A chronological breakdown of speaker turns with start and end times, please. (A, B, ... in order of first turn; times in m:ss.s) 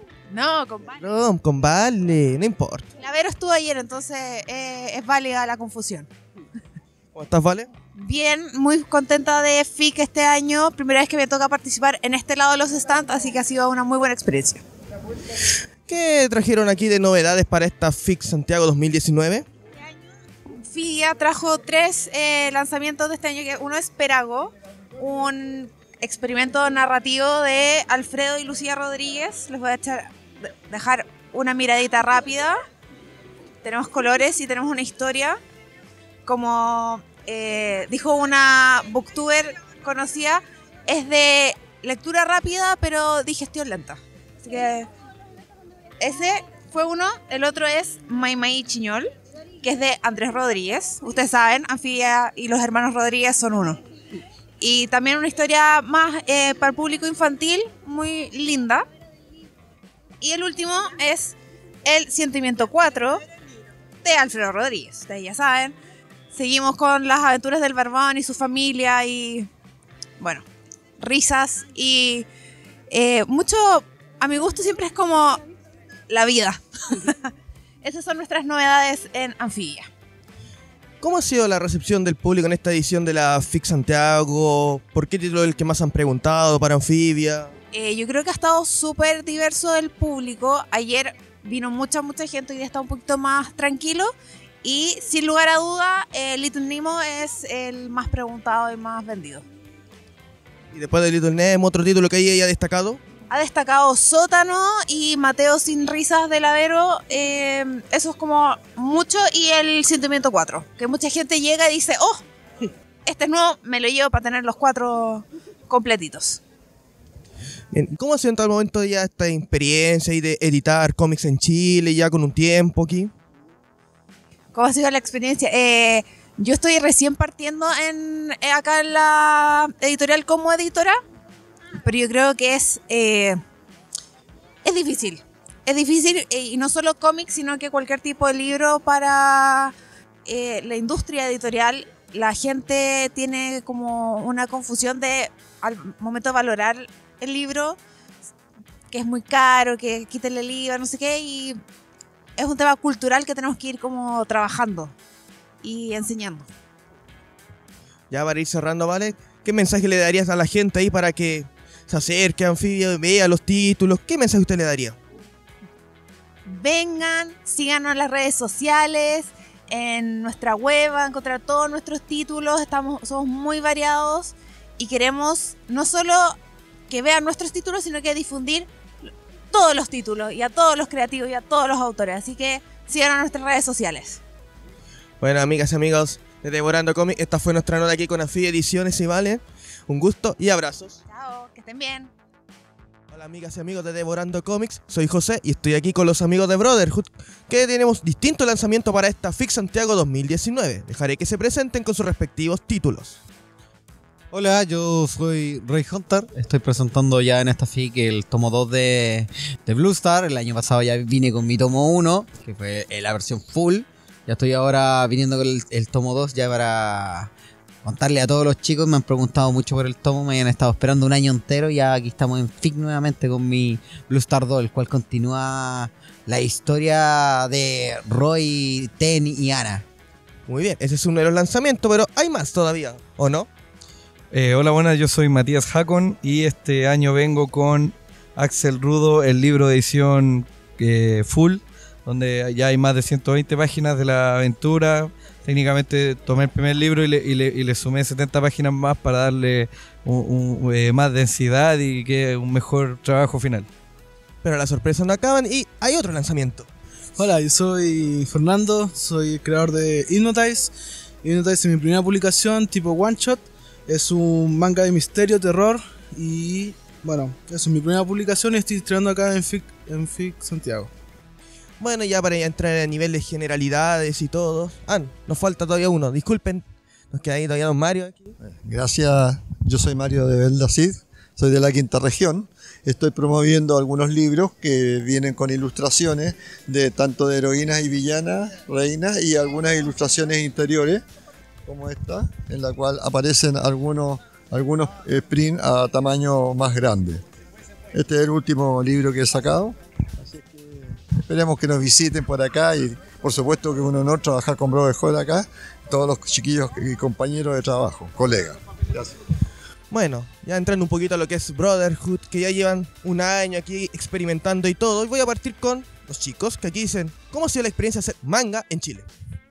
0:00.3-0:01.0 A
0:01.0-0:02.9 B
0:03.0-0:06.1 A
0:07.1-0:07.7 B
0:07.9-0:14.6 A
0:15.9-0:19.4 B
0:20.6-0:30.1 A
0:30.7-0:32.5 A
0:33.6-0:35.4 A
0:36.2-0:44.9 A
0:46.0-0:49.1 A
0:49.6-0:53.8 A
0:54.6-0:58.8 A
1:00.2-1:03.2 A
1:04.0-1:05.7 A
1:06.3-1:09.5 A
1:10.2-1:10.4 A
1:11.0-1:12.3 A
1:12.9-1:15.4 A
1:16.1-1:17.3 A
1:17.8-1:19.9 A
1:21.0-1:27.5 B
1:27.7-1:34.1 A
1:34.6-1:39.4 A
1:40.7-1:43.0 B
1:43.3-1:52.2 A
1:53.0-1:56.4 A
1:57.7-2:03.1 B
2:04.5-2:11.0 A
2:11.8-2:13.4 A
2:14.6-2:19.7 A
2:20.2-2:27.8 A
2:28.9-2:31.6 A
2:32.4-2:34.9 A
2:35.6-2:36.5 A
2:38.1-2:45.0 B
2:46.4-2:56.4 A
2:56.9-3:04.2 A
3:05.2-3:11.0 B
3:11.1-3:12.1 A
3:13.1-3:23.2 B
3:24.3-3:37.3 C
3:37.8-3:49.8 C
3:50.5-3:53.5 B
3:54.3-4:13.7 D
4:14.4-4:16.7 B
4:17.2-4:30.9 E
4:31.8-4:38.3 B
4:38.4-4:51.0 F
4:51.6-4:57.2 F
4:57.9-5:09.1 F
5:09.9-5:19.1 B